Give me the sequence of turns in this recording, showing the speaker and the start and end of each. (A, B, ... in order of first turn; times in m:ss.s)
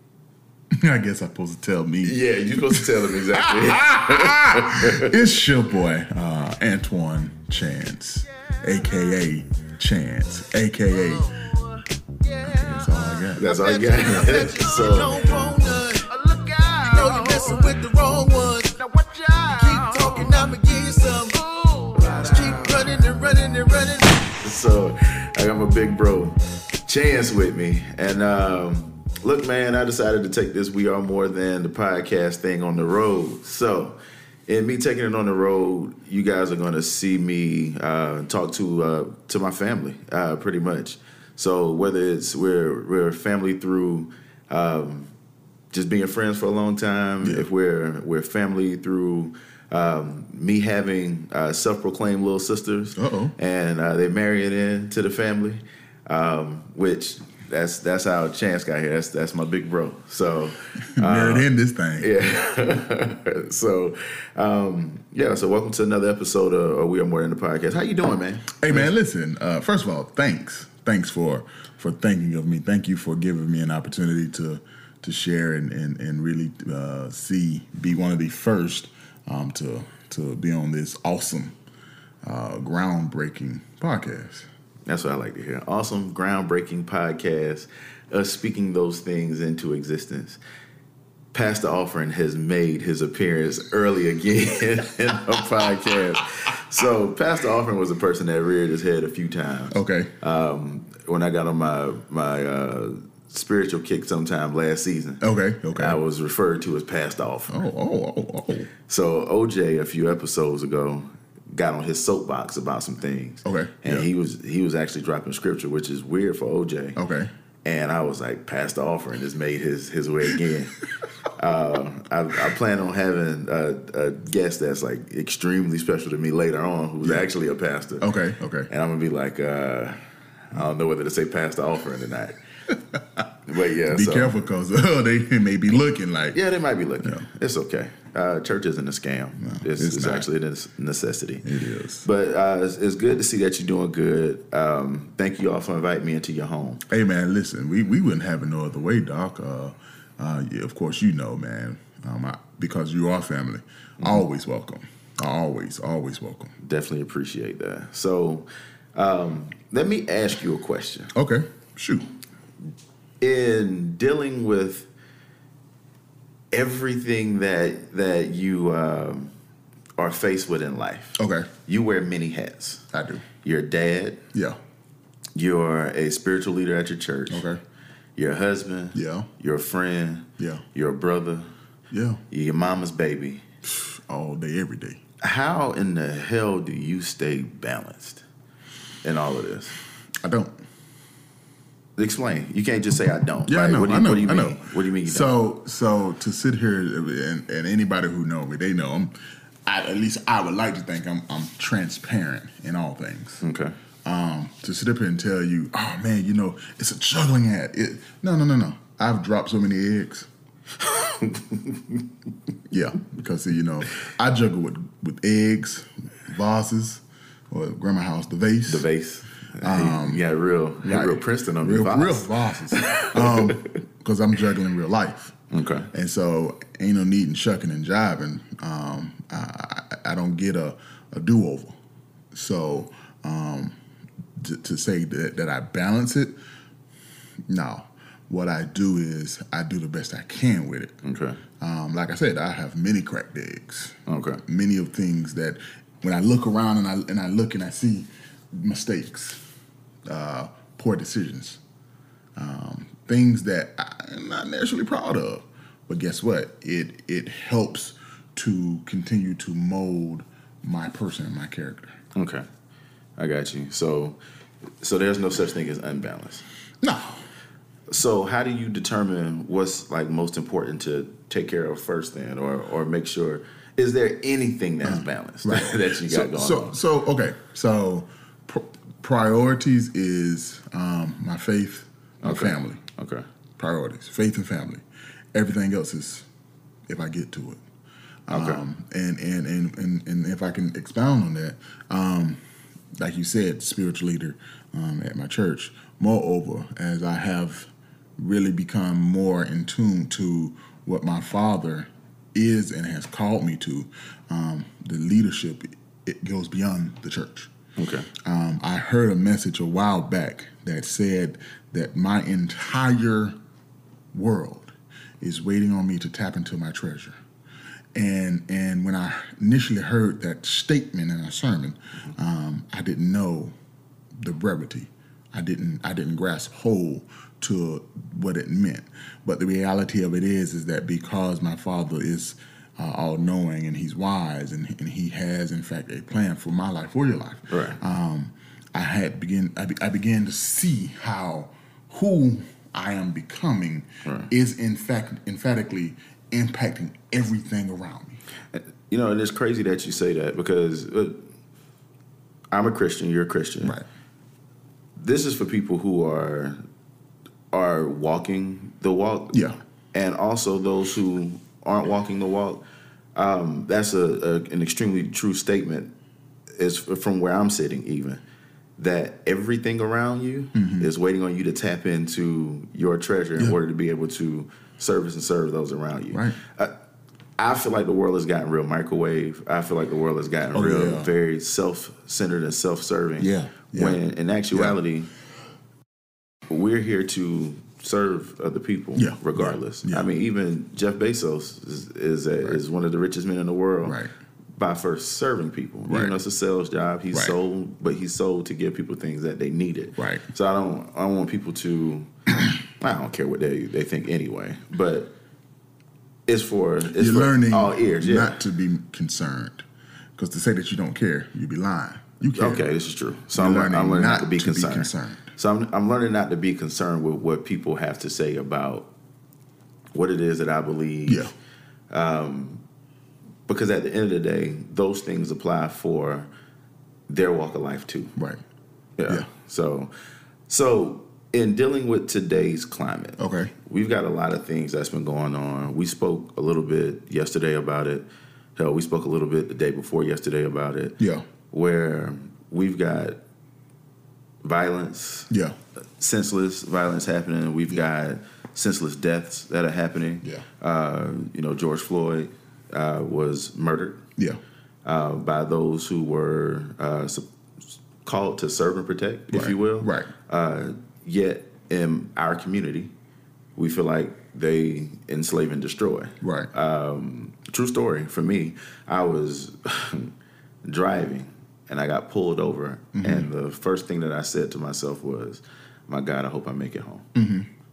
0:00.8-0:11.3 A
0:02.0-0:05.2 B
0:11.2-0:11.7 C
0:12.2-0:24.3 C
0:12.4-0:13.4 A
0:13.4-0:15.2 B
0:14.0-0:14.3 A
0:24.4-0:45.1 B
0:45.7-1:01.5 B
0:53.0-0:53.3 A
1:01.0-1:02.1 A
1:02.0-1:08.9 B
1:08.6-1:21.5 A
1:22.2-1:24.5 A
1:24.9-1:30.4 B
1:31.3-1:47.6 B
1:39.7-1:40.1 A
1:45.2-1:46.0 A
1:47.5-1:48.7 A
1:48.9-1:57.0 B
1:53.4-1:54.1 A
1:57.0-1:57.3 A
1:57.6-2:08.1 B
2:08.0-2:08.7 A
2:08.7-2:10.0 B
2:10.5-2:12.4 B
2:13.4-2:14.3 B
2:13.8-2:16.4 A
2:16.3-2:21.4 B
2:19.4-2:20.3 A
2:21.4-2:22.0 A
2:22.0-2:26.8 B
2:26.9-2:36.5 A
2:36.6-2:41.1 B
2:41.1-2:42.0 A
2:43.2-2:44.9 B
2:46.5-2:49.3 B
2:50.0-2:52.8 B
2:51.2-2:51.5 A
2:52.9-2:53.2 A
2:53.4-2:54.2 B
2:55.3-2:57.4 B
2:57.3-2:57.6 A
2:58.2-3:01.5 B
2:58.9-2:59.3 A
3:00.4-3:00.6 A
3:01.9-3:02.2 A
3:02.3-3:03.4 B
3:03.6-3:05.0 A
3:05.2-3:08.2 B
3:09.0-3:09.7 B
3:10.2-3:10.6 A
3:12.0-3:15.4 B
3:13.5-3:19.1 A
3:19.6-3:23.4 A
3:23.4-3:23.7 B
3:24.0-3:30.3 A
3:30.8-3:32.0 B
3:32.7-3:38.8 A
3:38.7-3:43.7 B
3:39.6-3:40.2 A
3:40.8-3:45.3 A
3:45.5-3:45.9 B
3:45.9-3:51.8 A
3:52.3-3:53.7 A
3:54.4-3:56.4 A
3:57.5-4:00.9 A
4:01.0-4:01.4 B
4:01.6-4:09.4 A
4:04.1-4:04.4 B
4:10.0-4:11.6 A
4:12.4-4:21.9 A
4:22.1-4:22.4 B
4:23.2-4:24.2 B
4:24.8-4:26.4 B
4:26.8-4:27.2 A
4:27.9-4:36.8 B
4:34.8-4:42.8 A
4:42.2-4:43.2 B
4:43.6-4:44.8 A
4:45.3-4:46.3 A
4:46.9-4:47.6 A
4:48.3-4:52.4 A
4:48.3-4:48.6 B
4:52.9-5:07.5 A
5:07.8-5:08.1 B
5:08.2-5:13.4 A
5:14.1-5:17.2 A
5:17.9-5:23.5 A
5:24.2-5:48.2 A
5:37.5-5:37.8 B
5:44.0-5:44.3 B
5:48.5-5:51.2 B
5:52.5-5:53.8 B
5:55.0-5:56.6 B
5:57.5-6:02.6 B
5:59.3-5:59.6 A
6:03.1-6:05.9 B
6:06.6-6:08.2 B
6:08.8-6:16.7 B
6:10.5-6:10.9 A
6:16.1-6:16.4 A
6:17.4-6:25.1 B
6:20.5-6:21.1 A
6:23.2-6:24.8 A
6:26.5-6:34.0 B
6:29.0-6:30.1 A
6:33.8-6:34.1 A
6:34.6-6:42.1 B
6:35.9-6:36.1 A
6:40.0-6:40.2 A
6:42.8-6:45.1 B
6:46.3-6:48.4 B
6:46.9-6:52.7 A
6:52.3-6:58.9 B
6:53.3-6:55.3 A
6:59.9-7:01.3 B
7:01.1-7:01.3 A
7:01.9-7:02.6 B
7:03.5-7:06.3 B
7:07.1-7:08.1 B
7:08.2-7:08.4 A
7:09.0-7:09.9 B
7:10.5-7:18.0 B
7:13.2-7:13.5 A
7:18.6-7:21.0 B
7:21.0-7:21.2 A
7:21.5-7:23.2 B
7:24.4-7:25.3 B
7:25.3-7:25.6 A
7:26.0-7:34.0 B
7:34.8-7:37.2 B
7:38.0-7:42.9 B
7:39.3-7:40.1 A
7:43.6-7:50.1 B
7:46.2-7:46.5 A
7:50.6-7:57.1 B
7:52.9-7:53.3 A
7:57.1-7:57.5 A